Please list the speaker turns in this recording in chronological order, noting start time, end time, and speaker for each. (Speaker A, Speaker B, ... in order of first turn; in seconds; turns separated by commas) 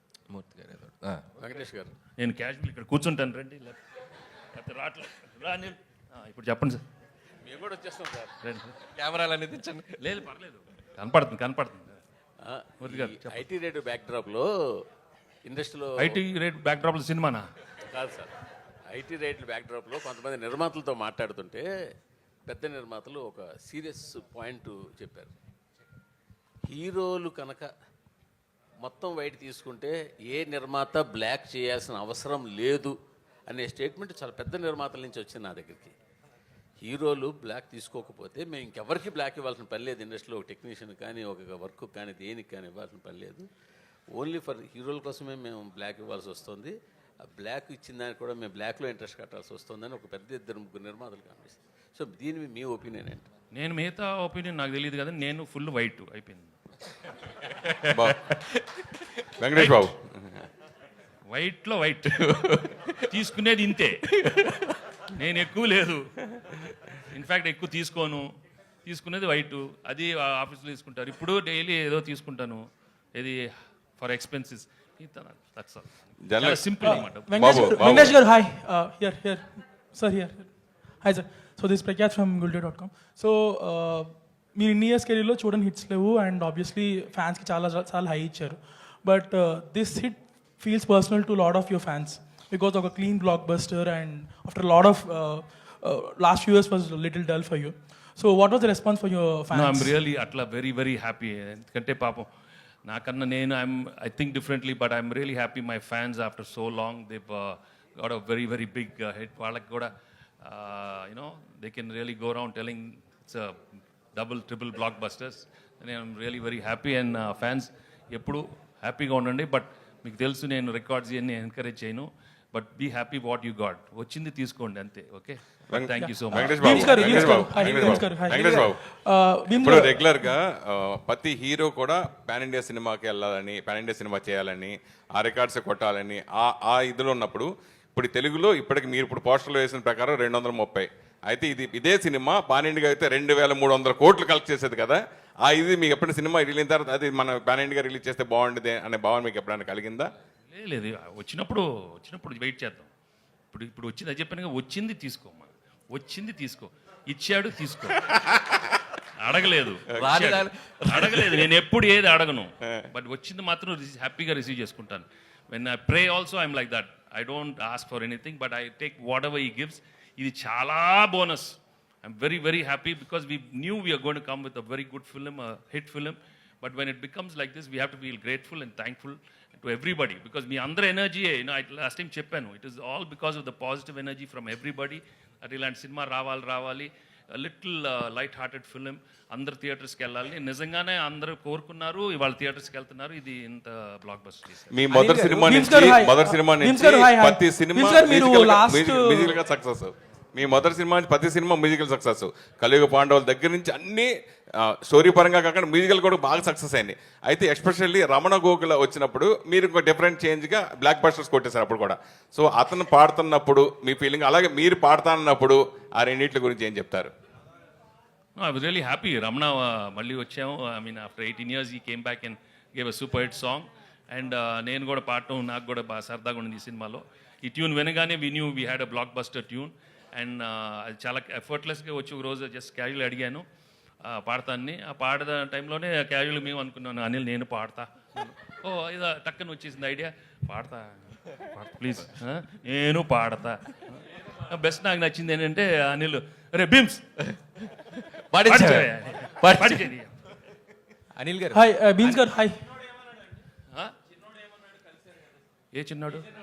Speaker A: 0.3-1.3, Speaker B: 1.4-1.9, Speaker C: 2.2-3.8, Speaker C: 4.5-6.8, Speaker B: 7.4-8.3, Speaker C: 8.4-8.8, Speaker A: 8.9-10.1, Speaker C: 10.0-12.0, Speaker B: 12.4-14.5, Speaker C: 12.8-13.5, Speaker B: 15.4-16.2, Speaker C: 16.0-17.5, Speaker B: 17.9-18.3, Speaker B: 18.9-21.7, Speaker B: 22.5-25.3, Speaker B: 26.6-27.7, Speaker B: 28.8-33.0, Speaker B: 33.5-35.9, Speaker B: 36.8-43.5, Speaker B: 44.1-53.3, Speaker C: 53.5-56.5, Speaker A: 57.6-58.6, Speaker D: 57.9-58.3, Speaker D: 59.4-60.3, Speaker C: 59.5-59.9, Speaker C: 61.3-64.2, Speaker A: 64.2-64.7, Speaker C: 65.1-68.3, Speaker C: 68.8-73.5, Speaker C: 74.0-78.1, Speaker D: 76.2-78.1, Speaker E: 76.8-80.5, Speaker E: 81.0-100.0, Speaker C: 99.5-102.3, Speaker C: 102.9-113.6, Speaker C: 114.2-127.7, Speaker D: 125.7-128.8, Speaker E: 126.0-130.2, Speaker D: 129.6-150.1, Speaker C: 150.5-152.9, Speaker C: 153.5-158.1, Speaker C: 159.2-194.8, Speaker A: 159.9-161.5, Speaker D: 194.7-204.1, Speaker E: 194.9-199.4, Speaker D: 204.6-217.1, Speaker C: 218.4-233.4, Speaker C: 234.0-247.2, Speaker A: 248.2-249.9, Speaker C: 248.4-250.3, Speaker A: 251.2-251.7, Speaker E: 251.5-252.7, Speaker C: 255.7-256.3